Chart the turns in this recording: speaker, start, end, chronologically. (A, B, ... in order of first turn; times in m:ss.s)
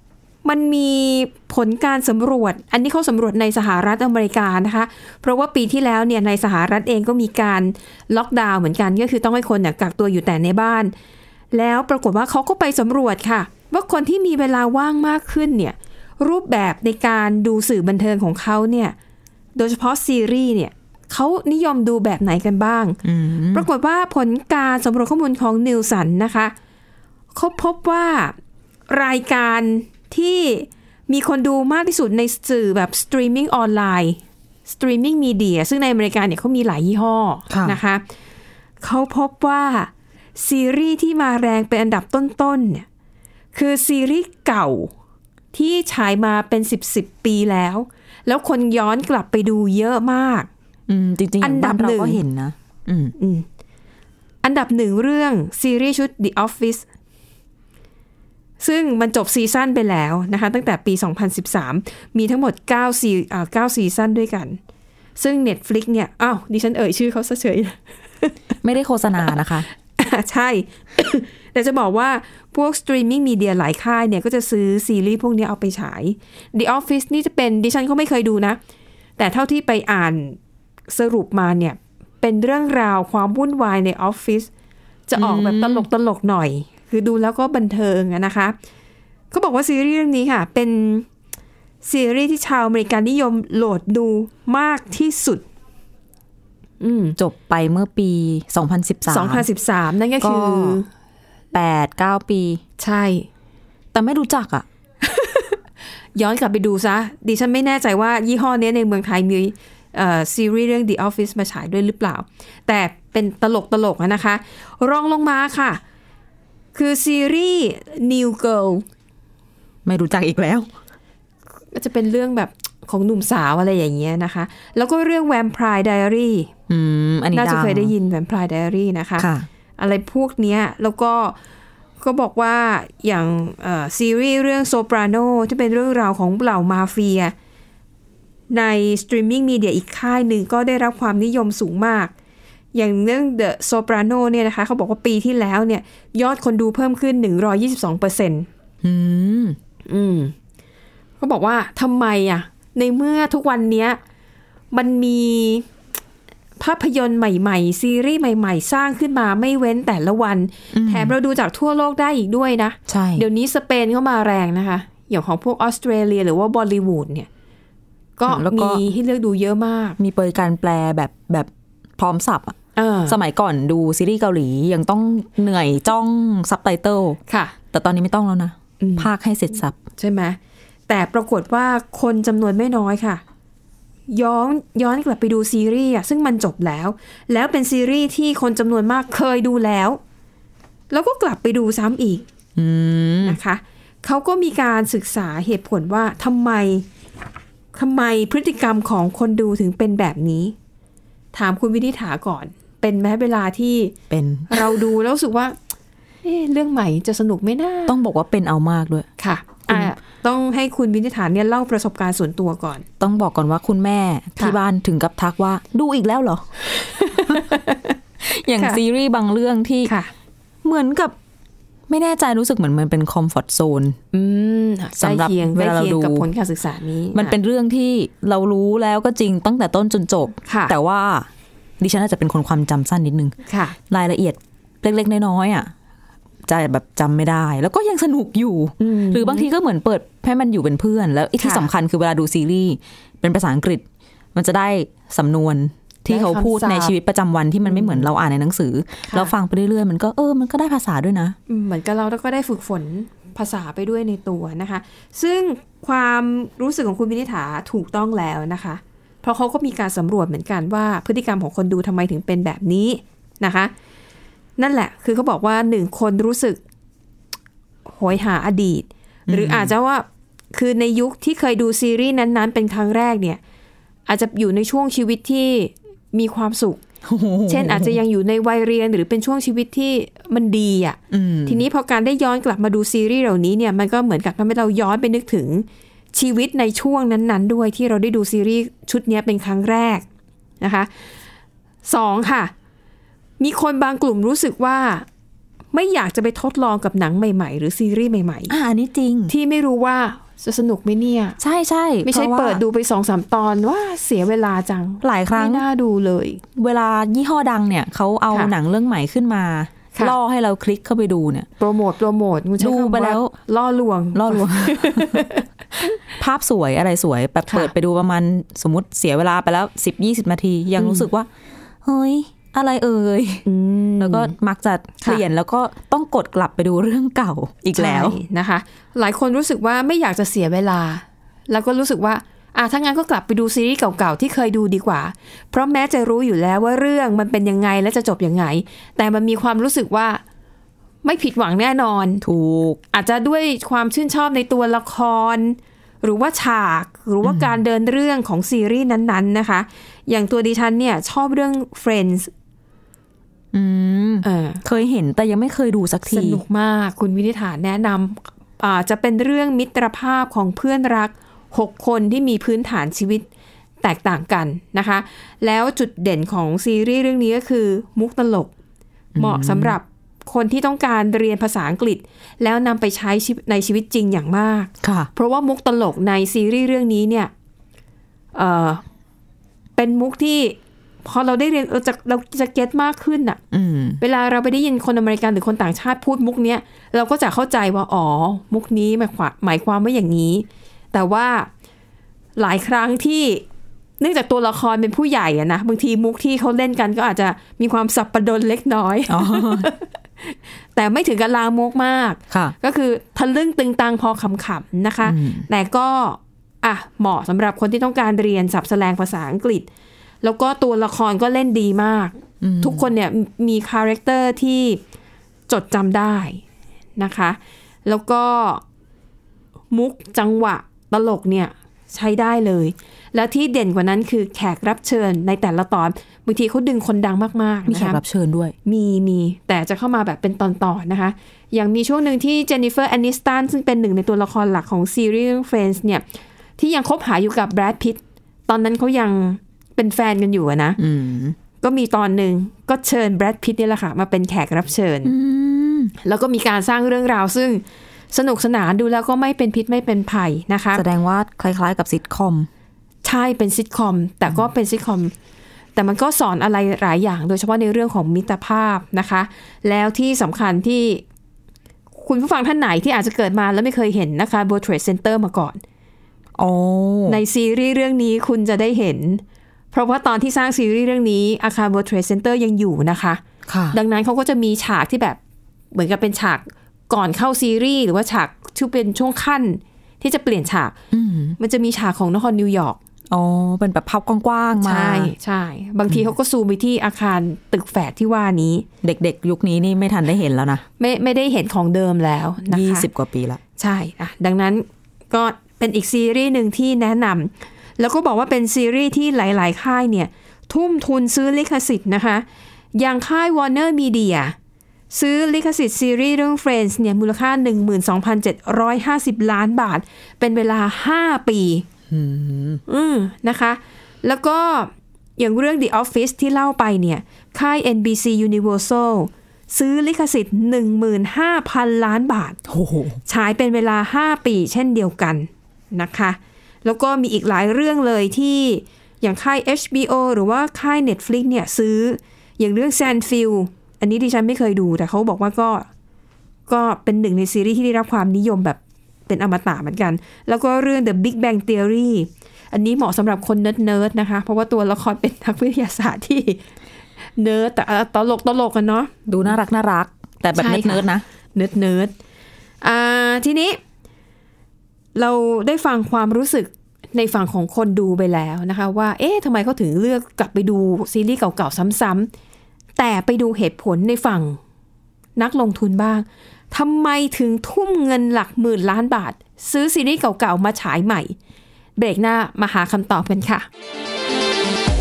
0:00.4-0:10.9 A
0:11.5-0:19.0 A
0:19.6-0:23.0 A
0:23.0-0:23.7 B
0:23.5-0:26.5 A
0:27.4-0:28.4 A
0:28.9-0:38.0 A
0:37.5-0:37.8 B
0:38.8-0:42.9 A
0:43.5-0:44.9 A
0:45.5-0:50.5 A
0:50.9-0:53.2 B
0:51.4-0:52.2 A
0:53.2-0:53.5 A
0:54.4-0:56.8 A
0:58.6-1:04.6 A
1:05.2-1:08.3 A
1:08.6-1:09.7 B
1:10.0-1:18.6 A
1:19.2-1:20.4 A
1:20.9-1:24.5 A
1:25.1-1:28.6 A
1:25.2-1:25.9 B
1:29.3-1:31.1 A
1:31.8-1:35.4 A
1:36.8-1:37.2 A
1:37.2-1:39.5 B
1:39.1-1:40.9 A
1:40.2-1:40.8 B
1:41.5-1:42.6 B
1:42.8-1:43.3 A
1:43.9-1:44.7 B
1:45.0-1:45.6 A
1:46.2-1:55.8 A
1:56.8-1:58.8 A
1:59.9-2:00.7 B
2:01.7-2:06.5 A
2:06.7-2:07.9 B
2:07.3-2:11.4 A
2:09.2-2:09.5 B
2:12.0-2:17.3 A
2:18.5-2:22.1 A
2:22.7-2:28.5 A
2:28.8-2:29.6 B
2:29.9-2:30.4 A
2:31.2-2:34.0 A
2:34.7-2:35.7 A
2:36.6-2:47.3 A
2:40.7-2:41.2 B
2:42.9-2:43.3 B
2:48.2-2:50.0 A
2:48.3-2:48.8 B
2:50.0-2:52.6 B
2:52.8-2:53.2 A
2:53.1-2:57.2 B
2:57.3-2:57.6 A
2:57.7-2:59.8 B
2:58.8-2:59.1 A
3:00.0-3:03.2 A
3:04.1-3:10.0 A
3:10.9-3:12.2 A
3:12.6-3:13.4 B
3:13.2-3:16.8 A
3:17.7-3:20.6 A
3:21.3-3:24.0 A
3:24.1-3:24.6 B
3:24.5-3:25.6 A
3:26.2-3:28.0 A
3:27.9-3:29.1 B
3:29.2-3:32.8 A
3:33.0-3:37.5 B
3:37.0-3:37.9 A
3:38.2-3:39.9 B
3:39.9-3:40.1 A
3:40.6-3:41.2 B
3:41.9-3:44.0 B
3:44.1-3:47.4 A
3:45.0-3:46.3 B
3:47.1-3:51.3 B
3:50.5-3:50.8 A
3:51.8-3:53.4 B
3:53.5-3:53.8 A
3:53.9-3:55.7 B
3:56.5-4:03.8 B
3:58.8-3:59.5 A
4:01.4-4:01.7 A
4:04.4-4:11.4 B
4:06.1-4:06.9 A
4:07.7-4:08.1 A
4:11.5-4:23.7 A
4:24.6-4:26.6 A
4:27.9-4:33.4 A
4:29.3-4:29.7 B
4:34.1-4:36.8 A
4:37.0-4:38.0 B
4:37.5-4:50.0 A
4:41.1-4:41.7 B
4:50.6-4:50.9 A
4:51.8-4:52.5 A
4:53.4-4:55.1 A
4:55.7-4:58.5 A
4:58.5-4:59.3 B
4:59.3-5:01.4 A
5:01.4-5:02.6 B
5:02.0-5:06.4 A
5:05.0-5:05.6 B
5:06.6-5:11.5 B
5:11.6-5:15.4 A
5:12.6-5:13.3 B
5:14.1-5:15.3 B
5:16.2-5:21.3 B
5:20.8-5:21.1 A
5:21.8-5:23.5 B
5:23.5-5:24.4 A
5:24.0-5:28.2 B
5:27.8-5:40.2 A
5:41.0-5:42.2 A
5:42.2-5:42.8 B
5:42.9-5:52.3 A
5:47.2-5:47.6 B
5:53.5-5:56.4 B
5:54.2-5:54.6 A
5:56.1-6:03.3 A
6:03.8-6:08.5 A
6:09.2-6:09.8 B
6:09.2-6:17.3 A
6:14.8-6:15.1 B
6:18.4-6:18.8 A
6:19.8-6:23.4 A
6:23.5-6:24.0 B
6:24.0-6:31.5 A
6:32.4-6:33.4 A
6:34.0-6:49.7 A
6:39.1-6:39.7 B
6:45.0-6:45.5 B
6:50.2-6:54.8 A
6:52.4-6:52.9 B
6:55.5-6:56.4 A
6:57.0-6:58.6 A
6:59.7-7:08.0 A
7:07.7-7:08.6 B
7:08.6-7:16.0 A
7:16.6-7:20.8 A
7:20.8-7:21.4 B
7:21.6-7:25.1 A
7:25.0-7:25.9 B
7:26.0-7:30.8 A
7:30.8-7:32.5 B
7:33.0-7:35.1 A
7:35.8-7:41.0 A
7:42.0-7:45.6 A
7:46.4-7:47.2 B
7:47.1-7:55.2 A
7:53.5-7:53.8 B
7:55.7-8:00.8 A
8:00.9-8:01.4 B
8:01.4-8:02.8 A
8:03.1-8:05.1 B
8:04.6-8:08.7 A
8:08.8-8:10.6 B
8:10.8-8:12.9 A
8:12.5-8:13.4 B
8:13.6-8:24.4 A
8:24.9-8:31.6 A
8:31.9-8:32.6 B
8:32.7-8:42.4 A
8:42.5-8:43.0 B
8:43.1-8:55.7 A
8:56.5-9:06.4 A
9:07.2-9:09.0 A
9:09.1-9:11.0 B
9:10.4-9:11.9 A
9:12.6-9:13.6 A
9:15.0-9:22.1 A
9:22.8-9:24.4 A
9:25.2-9:31.2 A
9:31.8-9:33.5 A